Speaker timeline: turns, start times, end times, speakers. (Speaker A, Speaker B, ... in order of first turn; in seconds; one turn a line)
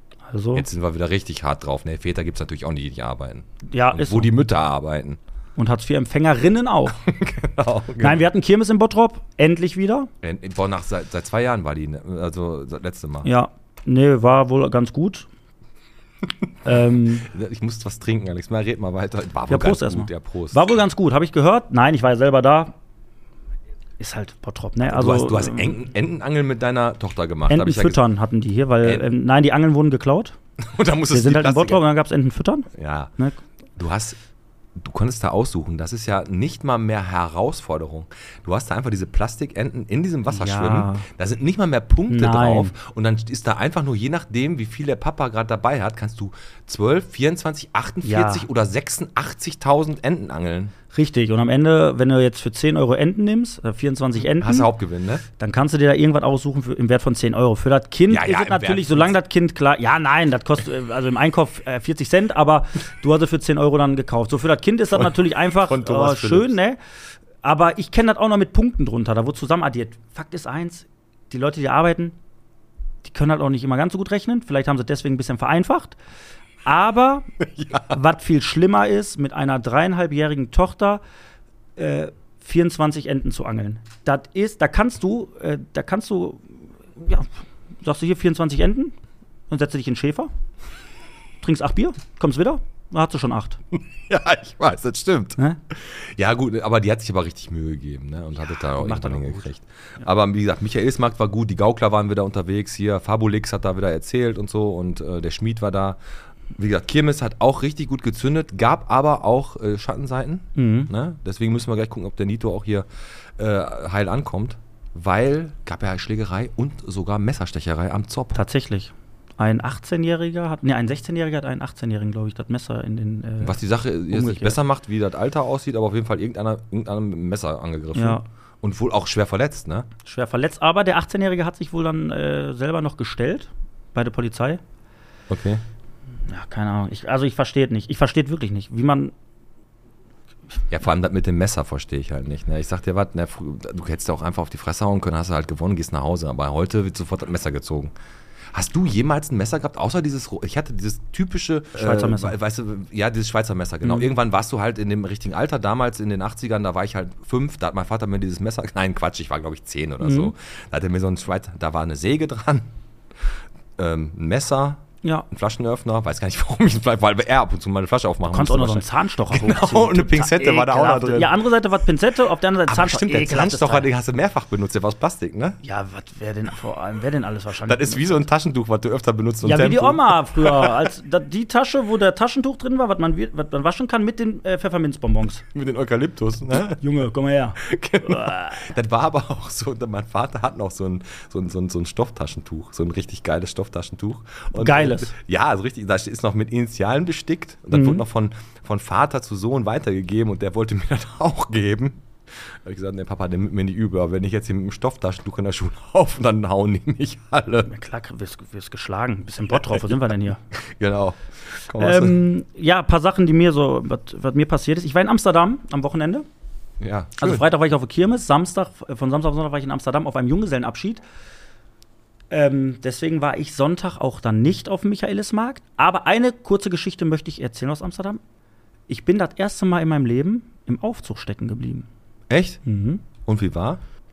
Speaker A: 0.3-0.7
Speaker B: 0.5-5.2
Speaker A: 3.7-4.3
Speaker A: 5.5-7.0
Speaker B: 7.0-8.2
Speaker A: 8.0-10.1
Speaker B: 10.2-13.3
Speaker A: 13.2-15.3
Speaker A: 16.6-17.3
Speaker B: 17.1-20.6
Speaker A: 19.5-22.7
Speaker A: 24.0-25.8
Speaker B: 24.9-28.0
Speaker A: 27.5-30.4
Speaker B: 28.8-29.1
Speaker B: 30.6-31.8
Speaker A: 31.1-33.4
Speaker B: 32.7-33.1
Speaker B: 33.8-34.2
Speaker B: 34.8-50.7
Speaker A: 40.3-41.1
Speaker A: 42.1-42.7
Speaker A: 48.0-48.5
Speaker A: 50.9-54.7
Speaker B: 54.4-55.2
Speaker A: 55.4-66.8
Speaker B: 58.1-59.1
Speaker B: 64.9-66.5
Speaker A: 67.4-72.2
Speaker A: 73.0-76.0
Speaker A: 76.6-77.3
Speaker B: 77.4-78.0
Speaker A: 77.9-81.0
Speaker A: 81.8-87.3
Speaker A: 87.8-89.0
Speaker A: 89.5-90.3
Speaker A: 91.4-93.6
Speaker B: 93.7-106.0
Speaker A: 98.6-99.5
Speaker B: 106.5-112.8
Speaker A: 110.5-110.9
Speaker B: 113.4-118.4
Speaker A: 118.3-123.6
Speaker B: 123.4-129.9
Speaker A: 124.1-124.6
Speaker A: 127.9-128.2
Speaker A: 130.0-134.6
Speaker B: 135.3-135.6
Speaker A: 136.3-139.1
Speaker B: 140.7-147.9
Speaker B: 148.5-162.7
Speaker A: 151.7-152.3
Speaker A: 153.8-154.1
Speaker A: 160.0-160.3
Speaker B: 163.8-171.4
Speaker A: 168.3-173.9
Speaker B: 172.7-175.6
Speaker A: 175.6-178.2
Speaker B: 177.7-180.8
Speaker A: 179.4-185.4
Speaker B: 185.4-186.8
Speaker A: 186.8-188.7
Speaker B: 187.6-207.7
Speaker A: 194.5-195.1
Speaker A: 197.7-198.0
Speaker A: 207.7-210.4
Speaker B: 209.5-209.9
Speaker B: 210.5-212.2
Speaker A: 211.8-216.2
Speaker B: 216.8-217.4
Speaker A: 217.2-221.0
Speaker A: 222.3-228.2
Speaker A: 228.9-231.9
Speaker B: 232.3-232.6
Speaker A: 232.6-233.0
Speaker B: 233.2-233.8